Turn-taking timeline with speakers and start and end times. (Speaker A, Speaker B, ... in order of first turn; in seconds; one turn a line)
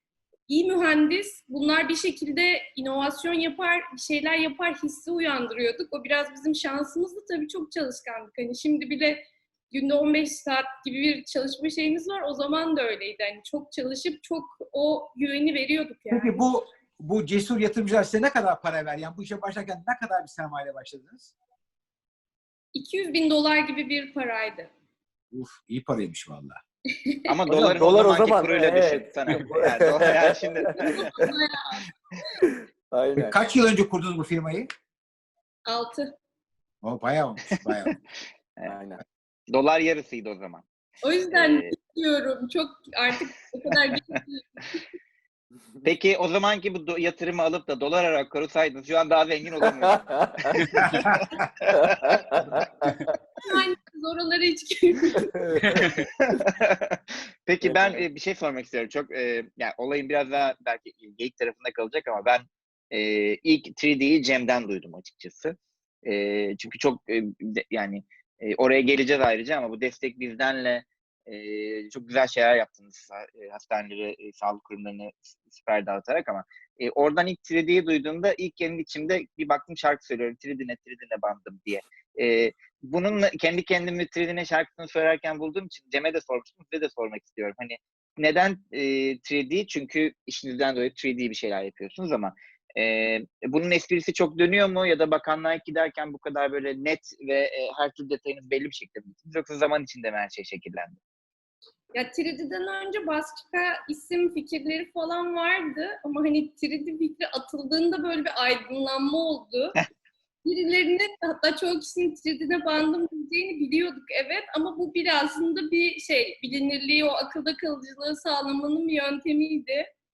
Speaker A: 0.5-16.4
Speaker B: 16.1-21.3
Speaker A: 22.8-24.7
Speaker B: 25.3-26.6
Speaker A: 27.1-27.3
Speaker C: 27.3-31.0
Speaker D: 27.5-31.3
Speaker A: 30.7-31.9
Speaker D: 32.4-33.4
Speaker B: 33.2-34.7
Speaker A: 35.7-36.1
Speaker B: 36.8-37.9
Speaker C: 37.6-38.0
Speaker D: 38.6-39.0
Speaker C: 39.5-40.7
Speaker A: 41.0-44.8
Speaker C: 41.3-41.8
Speaker C: 43.9-44.2
Speaker C: 45.8-52.6
Speaker D: 49.6-50.7
Speaker B: 50.8-51.3
Speaker D: 51.7-53.0
Speaker A: 53.4-55.9
Speaker D: 55.4-56.4
Speaker C: 55.8-101.0
Speaker D: 57.6-58.0
Speaker A: 102.0-109.8
Speaker A: 110.5-119.9